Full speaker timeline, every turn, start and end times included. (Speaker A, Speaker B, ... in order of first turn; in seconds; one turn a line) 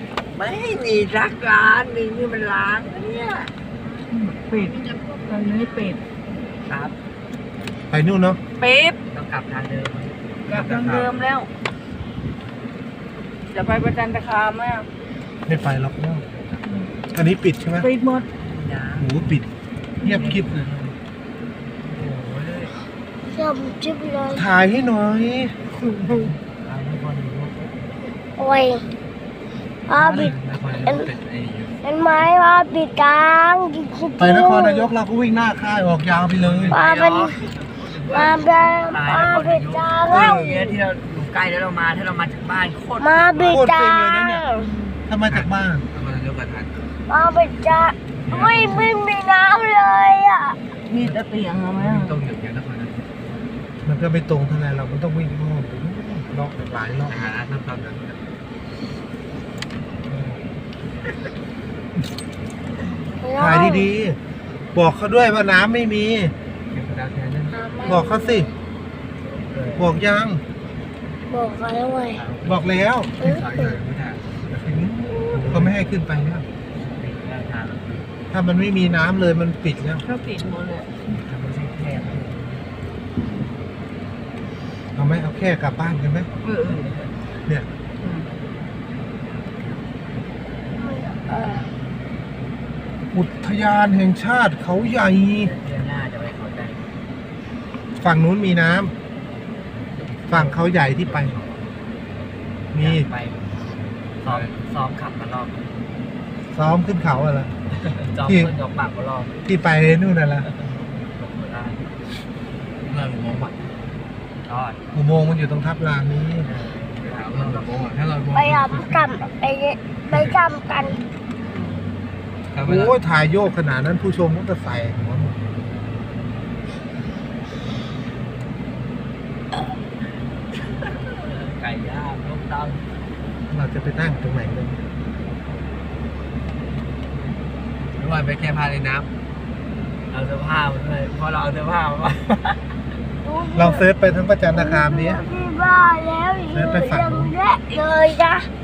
Speaker A: 0.3-3.5
Speaker B: 2.7-3.4
Speaker A: 4.1-6.0
Speaker B: 5.0-5.3
Speaker B: 6.7-7.0
Speaker C: 7.9-8.4
Speaker A: 8.6-9.0
Speaker B: 9.1-10.2
Speaker D: 10.4-11.1
Speaker A: 10.5-11.5
Speaker A: 13.5-14.9
Speaker C: 15.5-16.2
Speaker B: 16.4-16.6
Speaker A: 16.6-16.9
Speaker C: 17.1-17.9
Speaker A: 17.8-18.3
Speaker B: 18.3-19.1
Speaker C: 19.0-19.5
Speaker C: 20.0-20.6
Speaker B: 20.0-20.9
Speaker B: 21.8-22.8
Speaker E: 23.3-24.5
Speaker C: 24.3-25.6
Speaker B: 25.8-27.7
Speaker E: 28.4-28.8
Speaker E: 29.9-31.1
Speaker D: 29.9-31.8
Speaker E: 31.8-34.9
Speaker C: 34.2-36.7
Speaker D: 36.3-36.8
Speaker B: 36.7-43.6
Speaker E: 36.7-37.4
Speaker E: 38.1-40.4
Speaker C: 40.1-40.8
Speaker E: 43.0-44.7
Speaker C: 43.5-44.5
Speaker C: 45.1-45.9
Speaker D: 45.3-46.9
Speaker E: 47.1-50.6
Speaker D: 48.2-48.9
Speaker A: 50.9-52.2
Speaker D: 51.8-53.1
Speaker C: 53.8-57.2
Speaker D: 57.1-58.2
Speaker D: 60.1-60.4
Speaker E: 63.2-63.9
Speaker C: 63.4-64.2
Speaker C: 64.7-66.3
Speaker D: 66.7-67.9
Speaker E: 67.5-68.5
Speaker C: 67.8-68.5
Speaker B: 69.2-70.0
Speaker C: 69.8-70.4
Speaker E: 71.3-72.2
Speaker D: 72.2-75.7
Speaker C: 72.4-73.1
Speaker E: 73.2-73.8
Speaker B: 75.2-75.7
Speaker C: 75.3-76.5
Speaker B: 76.7-78.1
Speaker C: 78.3-80.0
Speaker A: 80.0-80.9
Speaker B: 81.1-82.6
Speaker C: 85.0-86.3
Speaker A: 86.4-86.9
Speaker B: 86.7-87.1
Speaker A: 88.0-88.3
Speaker B: 89.2-89.6
Speaker E: 90.8-91.7
Speaker C: 93.1-95.5
Speaker B: 95.3-96.9
Speaker C: 98.0-98.9
Speaker B: 99.9-101.9
Speaker C: 100.3-101.4
Speaker C: 102.7-103.1
Speaker B: 102.7-105.6
Speaker D: 104.2-104.6
Speaker C: 106.5-107.5
Speaker B: 107.7-109.3
Speaker C: 108.2-108.5
Speaker C: 109.4-110.5
Speaker B: 110.4-111.8
Speaker D: 112.8-113.7
Speaker B: 114.5-114.8
Speaker C: 114.9-116.5
Speaker B: 116.4-117.7
Speaker D: 117.0-119.3
Speaker E: 118.3-121.0
Speaker D: 120.1-120.4
Speaker A: 121.6-121.8
Speaker D: 122.5-123.0
Speaker C: 122.6-125.3
Speaker B: 130.6-132.8
Speaker C: 133.5-134.8
Speaker D: 137.9-139.1
Speaker B: 140.1-142.8
Speaker E: 143.2-143.9
Speaker C: 143.5-145.2
Speaker E: 144.5-148.5
Speaker C: 146.5-147.3